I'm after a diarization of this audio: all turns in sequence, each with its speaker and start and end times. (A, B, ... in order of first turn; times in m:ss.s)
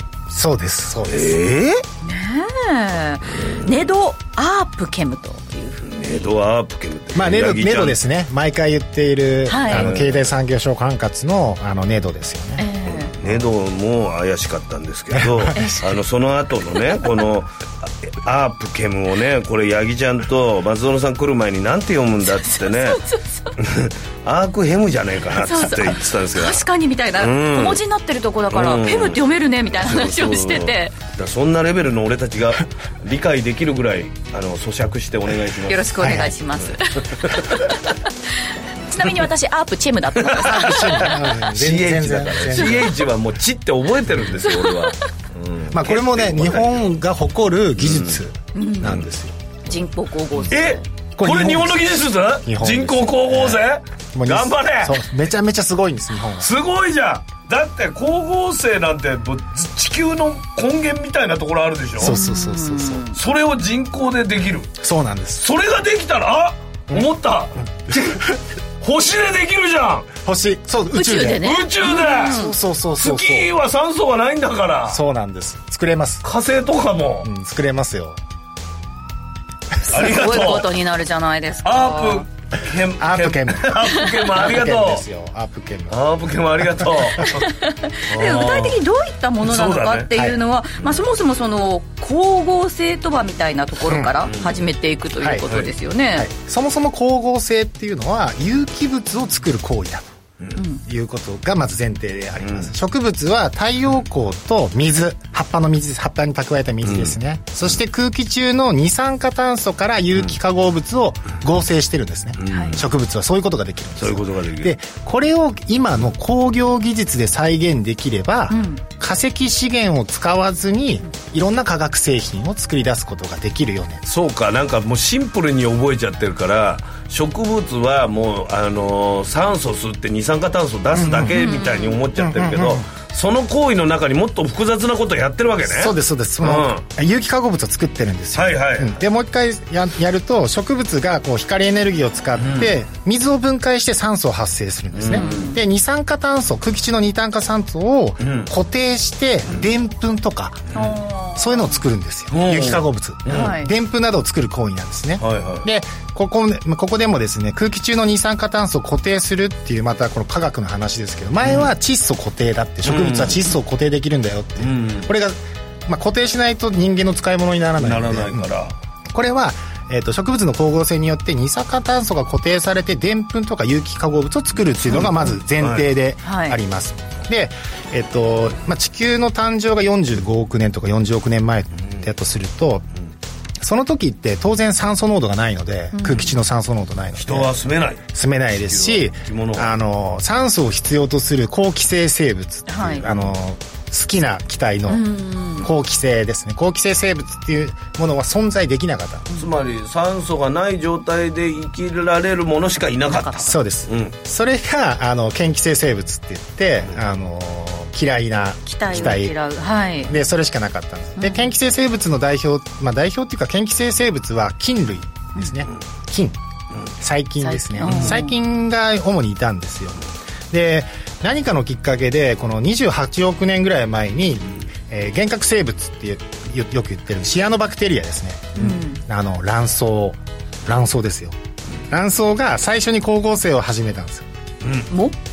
0:00.3-0:01.4 A
0:01.1-0:01.8 B
0:02.0-0:06.3 C
0:05.8-0:08.0 B
0:07.1-0:12.7 A
0:09.5-0:09.9 C
0:09.7-0:10.3 B
0:12.6-0:13.1 C
0:12.9-0:17.5 B
0:15.1-0:15.6 A
0:15.6-0:15.8 C
0:18.1-0:23.0 B
0:22.4-0:23.2 C
0:23.6-0:26.7 B
0:25.5-0:30.9 C
0:27.2-0:27.8 B
0:28.5-0:37.4 B
0:35.7-0:37.1 C
0:36.0-0:36.3 A
0:38.9-0:41.1 C
0:40.3-0:47.0 B
0:40.4-0:42.9 A
0:44.4-0:45.0 C
0:45.7-0:49.3 A
0:47.8-0:48.2 B
0:48.6-0:48.9 C
0:49.7-0:50.8 C
0:50.5-0:55.0 B
0:51.2-0:53.6 A
0:54.1-0:56.5 A
0:56.4-1:02.2 B
1:02.0-1:03.0 A
1:02.0-1:03.2 C
1:03.1-1:04.7 B
1:04.8-1:05.4 A
1:05.4-1:08.2 B
1:07.6-1:08.4 A
1:08.8-1:10.1 B
1:10.3-1:11.5 A
1:10.9-1:12.5 C
1:11.4-1:12.4 B
1:12.2-1:13.5 A
1:13.0-1:15.0 B
1:14.9-1:16.2 A
1:16.2-1:17.3 B
1:17.2-1:18.2 A
1:19.9-1:22.2 C
1:19.9-1:20.8 B
1:21.6-1:25.0 B
1:23.0-1:27.2 A
1:25.9-1:27.5 B
1:28.1-1:28.8 B
1:28.1-1:36.3 C
1:29.4-1:30.2 B
1:33.9-1:34.2 A
1:34.2-1:34.6 B
1:35.2-1:35.6 A
1:35.5-1:35.7 B
1:36.1-1:40.2 A
1:40.9-2:04.0 A
1:42.4-1:42.7 B
1:46.8-1:47.2 B
1:52.4-1:52.9 B
1:52.5-1:52.8 C
1:54.0-1:54.7 B
1:58.5-1:58.8 C
2:04.1-2:16.8 B
2:10.9-2:11.4 A
2:11.4-2:12.0 C
2:12.2-2:12.8 A
2:15.6-2:30.6 A
2:18.4-2:19.0 B
2:22.4-2:22.7 B
2:24.9-2:25.5 B
2:25.2-2:25.6 C
2:28.2-2:28.5 B
2:30.8-2:31.8 C
2:31.4-2:48.5 A
2:32.3-2:33.6 B
2:33.3-2:33.7 C
2:35.2-2:35.7 B
2:41.4-2:41.7 B
2:42.8-2:43.5 B
2:44.6-2:45.1 B
2:47.8-2:48.7 B
2:49.1-3:02.9 A
2:54.9-2:55.9 B
2:56.2-2:56.6 C
3:03.6-3:07.5 A
3:05.9-3:06.3 C
3:07.2-3:09.7 B
3:08.1-3:19.3 A
3:12.7-3:13.0 C
3:13.0-3:13.3 B
3:14.9-3:15.7 C
3:19.4-3:24.2 B
3:23.1-3:23.5 C
3:23.4-3:29.4 A
3:28.7-3:30.1 C
3:30.0-3:36.4 A
3:31.2-3:31.5 C
3:37.0-3:51.4 A
3:37.4-3:38.3 C
3:37.8-3:38.2 B
3:48.6-3:49.0 C
3:51.9-3:54.3 A
3:54.6-3:54.9 B
3:54.9-3:55.2 C